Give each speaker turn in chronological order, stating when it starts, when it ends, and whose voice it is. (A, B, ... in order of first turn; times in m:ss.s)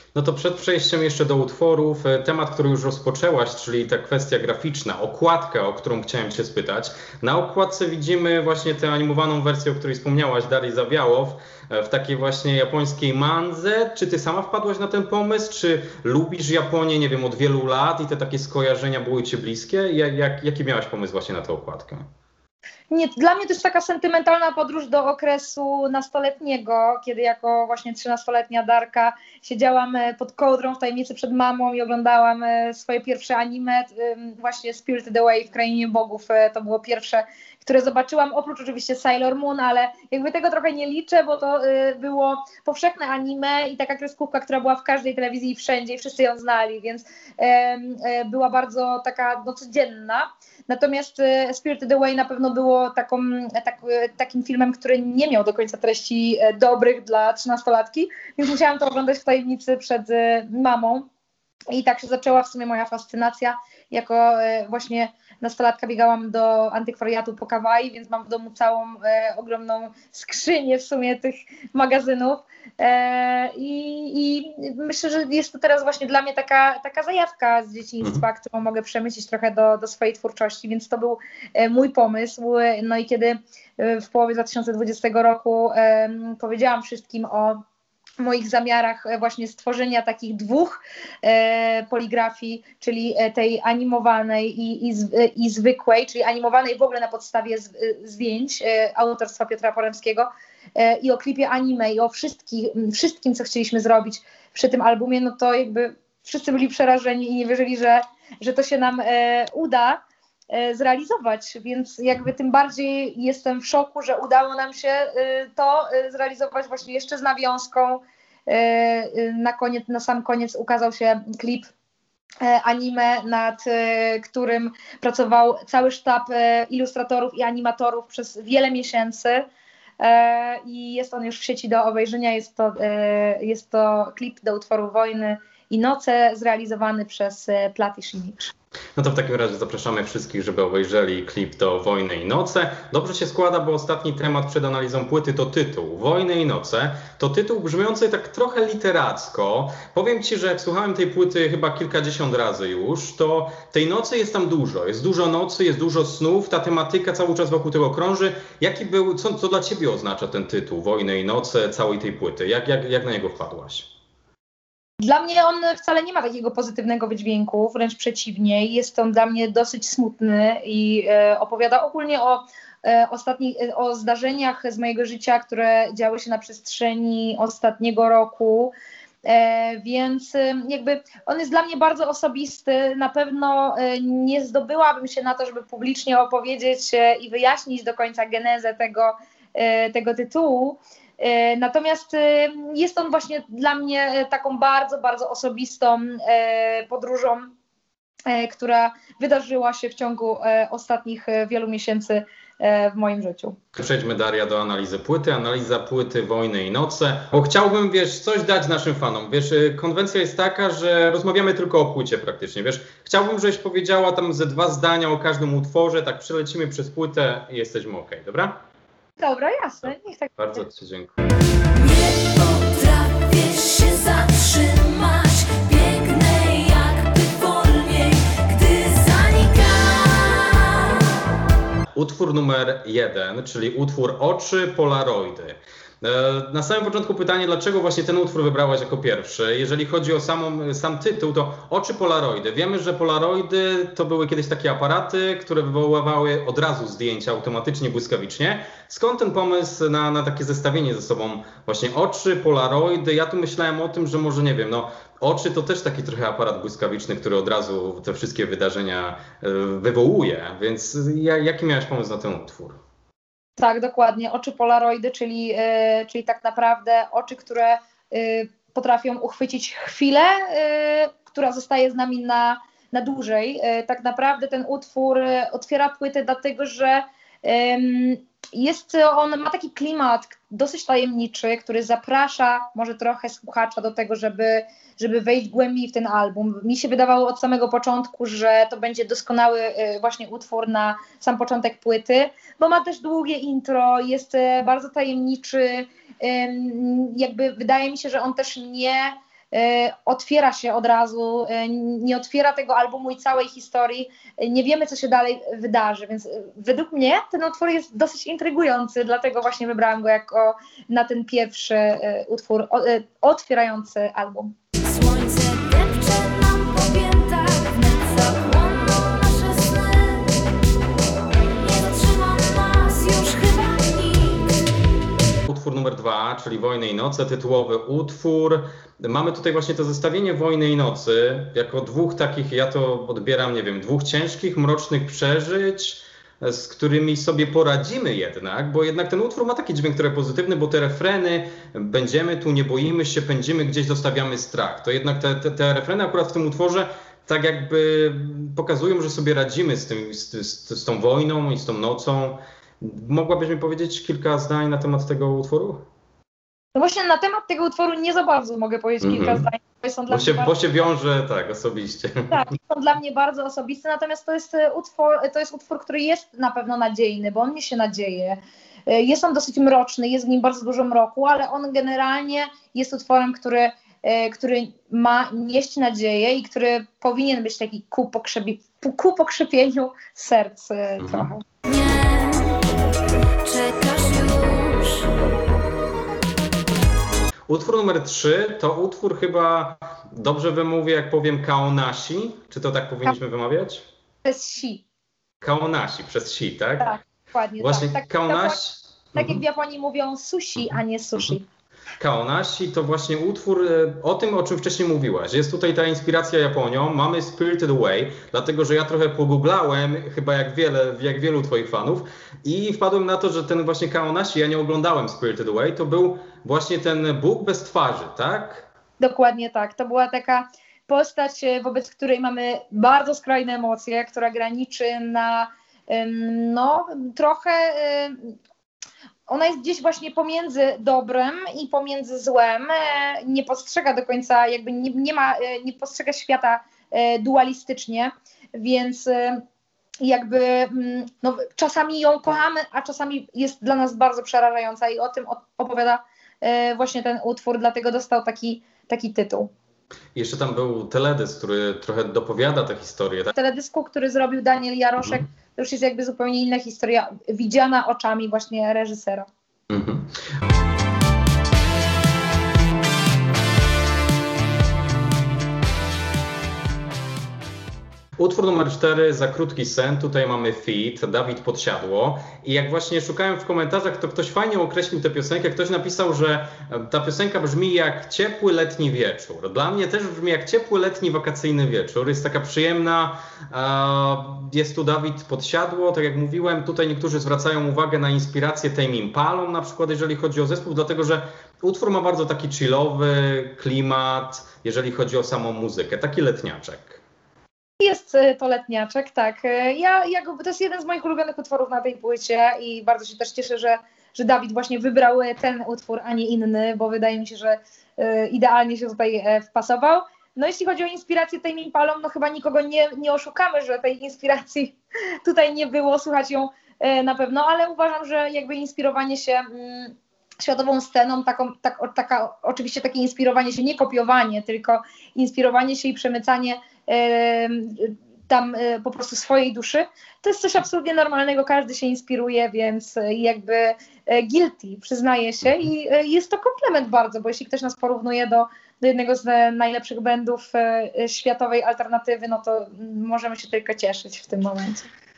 0:00.1-0:22.1 A
0:22.9-1:01.1 B
1:01.7-1:27.6 B
1:28.2-1:50.0 B
1:50.5-2:01.7 B
2:02.4-2:09.4 B
2:10.0-2:18.5 B
2:19.0-2:43.9 A
2:45.0-2:58.7 B
2:59.2-3:17.5 B
3:18.3-3:23.6 B
3:23.7-3:38.6 A
3:39.2-3:40.6 B
3:40.4-3:41.1 A
3:41.7-3:51.1 C
3:51.9-4:22.8 A
4:23.6-5:14.5 B
5:14.8-5:20.4 C
5:21.6-5:24.6 C
5:25.5-5:55.9 A
5:56.7-6:00.6 B
5:59.0-5:59.5 A
6:00.1-6:02.4 A
6:02.3-6:21.4 B
6:21.0-6:21.3 A
6:21.6-6:22.7 C
6:23.4-6:25.1 C
6:27.5-6:33.8 A
6:34.2-6:34.8 B
6:35.4-6:36.9 A
6:36.8-6:38.6 B
6:37.6-6:39.4 A
6:39.1-6:41.4 B
6:42.0-6:58.7 A
6:59.0-7:08.3 B
7:09.3-7:19.4 B
7:20.0-7:29.5 B
7:30.1-7:33.3 A
7:33.3-7:39.3 B
7:39.7-7:40.1 A
7:48.2-8:17.0 A
8:17.8-9:04.9 B